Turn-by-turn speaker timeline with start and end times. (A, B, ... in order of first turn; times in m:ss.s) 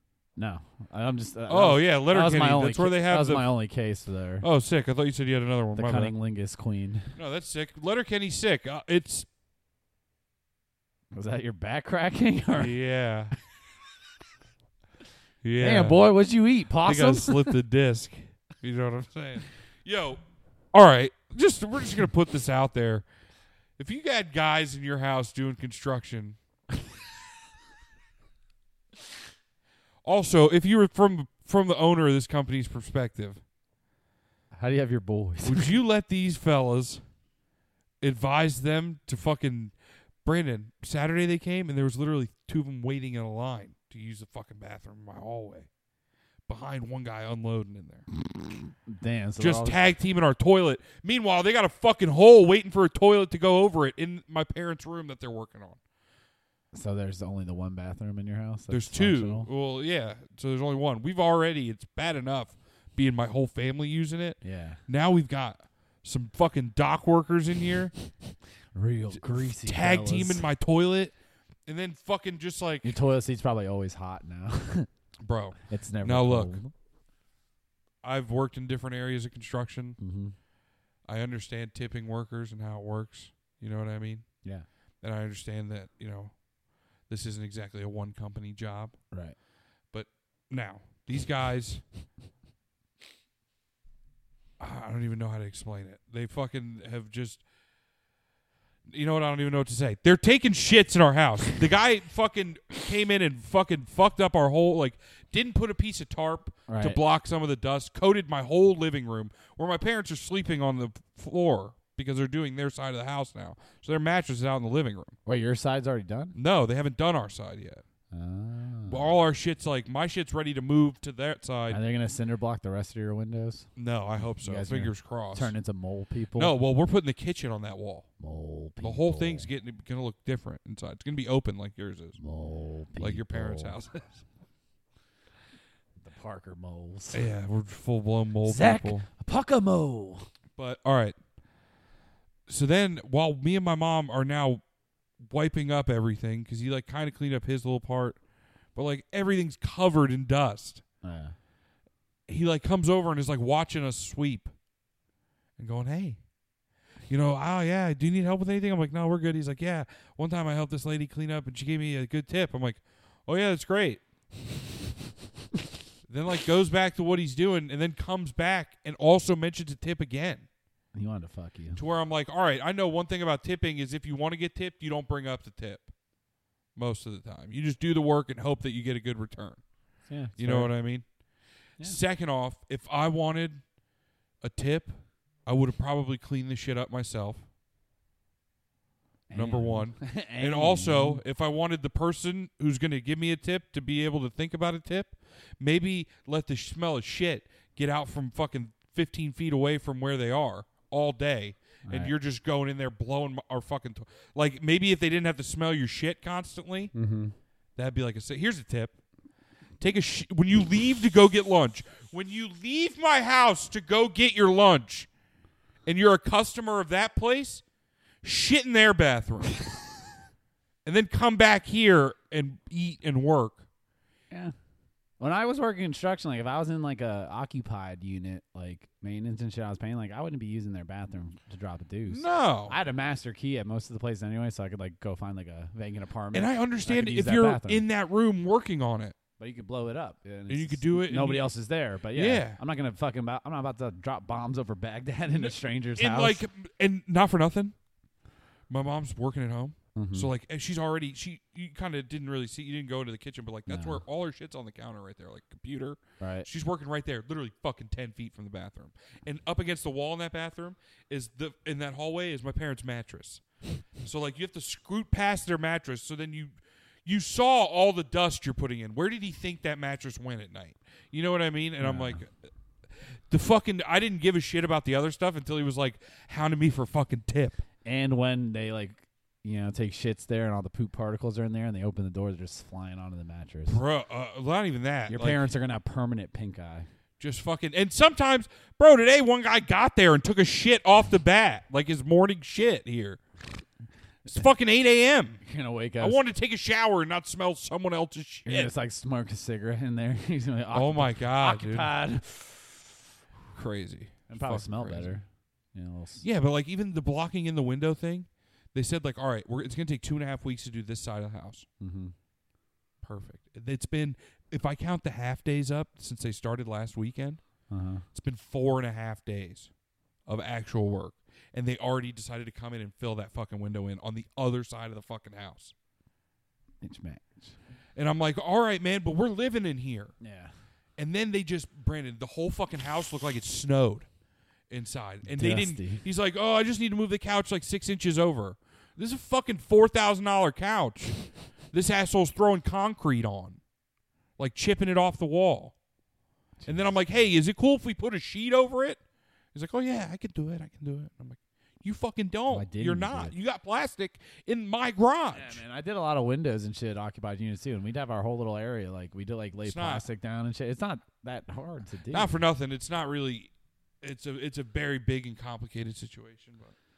0:00.4-0:04.4 A
0:01.5-0:03.5 B
0:04.4-0:06.1 B
0:05.7-0:07.2 A
0:07.2-0:09.3 B
0:11.1-0:12.7 A
0:12.5-0:13.4 B
0:15.4-0:16.0 B
0:15.6-0:17.6 A
0:16.8-0:20.2 B
0:20.7-0:23.0 B
0:23.8-0:26.4 B
0:30.0-0:33.4 B
0:34.5-0:35.7 A
0:35.4-0:37.0 B
0:38.0-0:45.7 B
0:46.5-0:48.0 B
0:48.3-0:49.8 A
0:49.4-0:55.8 B
0:56.7-0:59.5 A
0:58.7-1:07.9 B
1:04.4-1:04.8 A
1:08.7-1:10.4 A
1:09.1-1:11.1 B
1:11.6-1:12.9 B
1:12.8-1:14.9 A
1:15.2-1:16.6 B
1:15.7-1:16.7 A
1:18.0-1:20.0 B
1:20.0-1:20.4 A
1:21.0-1:24.4 B
1:25.0-1:26.4 B
1:27.0-1:29.0 B
1:29.1-1:29.4 A
1:29.9-1:31.8 B
1:34.6-1:37.4 B
1:38.9-1:55.2 B
1:46.7-1:47.0 A
1:55.2-1:56.4 A
1:56.3-1:57.8 B
1:58.1-1:59.1 A
1:58.9-2:01.8 B
2:01.7-2:03.7 A
2:03.8-2:05.5 B
2:04.4-2:06.5 A
2:06.3-2:08.1 B
2:08.2-2:09.5 A
2:08.8-2:12.2 B
2:12.2-2:13.8 A
2:13.0-2:14.2 B
2:16.0-2:17.3 A
2:17.1-2:19.1 B
2:18.4-2:20.3 A
2:20.6-2:21.2 B
2:22.5-2:24.6 B
2:25.2-2:28.2 B
2:28.7-2:30.8 B
2:31.0-2:31.4 A
2:32.3-2:34.5 B
2:35.6-2:36.2 B
2:37.1-2:44.0 B
2:46.1-2:50.5 B
2:50.9-2:51.8 A
2:51.8-2:55.9 B
2:56.7-2:59.6 B
3:00.1-3:00.7 A
3:00.4-3:01.1 B
3:01.8-3:03.7 B
3:04.4-3:07.4 B
3:09.3-3:11.2 A
3:09.3-3:26.9 B
3:21.8-3:22.1 A
3:26.9-3:27.3 A
3:27.8-3:28.9 B
3:29.8-3:35.1 B
3:35.8-3:37.6 B
3:38.2-3:39.7 B
3:40.8-3:43.6 B
3:45.2-3:57.8 A
3:52.0-3:52.8 B
3:56.3-3:59.1 B
3:59.4-4:06.4 A
4:00.5-4:01.5 B
4:02.1-4:02.6 B
4:05.3-4:07.7 B
4:08.7-4:23.4 B
4:09.9-4:10.3 A
4:13.7-4:14.0 A
4:16.2-4:16.5 A
4:24.0-4:37.6 B
4:31.8-4:32.2 A
4:37.8-4:43.8 A
4:43.7-4:45.4 B
4:45.1-4:46.9 A
4:47.2-4:53.2 B
4:54.2-4:55.4 B
4:55.4-4:56.2 A
4:56.0-4:58.7 B
4:58.4-5:02.9 A
5:00.7-5:01.9 B
5:03.5-5:05.1 B
5:04.3-5:06.2 A
5:06.2-5:11.6 B
5:11.8-5:12.1 A
5:13.0-5:17.4 B
5:17.7-5:18.0 A
5:18.1-5:19.7 B
5:20.2-5:25.7 B
5:26.8-5:27.6 A
5:28.0-5:30.1 B
5:30.2-5:30.5 A
5:31.0-5:34.1 B
5:34.7-5:41.2 B
5:35.3-5:36.0 A
5:41.7-5:43.6 B
5:44.4-5:45.7 B
5:46.6-5:46.9 A
5:46.6-5:49.0 B
5:49.5-5:55.6 B
5:52.5-5:53.3 A
5:55.3-6:02.3 A
5:59.6-6:00.0 B
6:02.1-6:06.7 B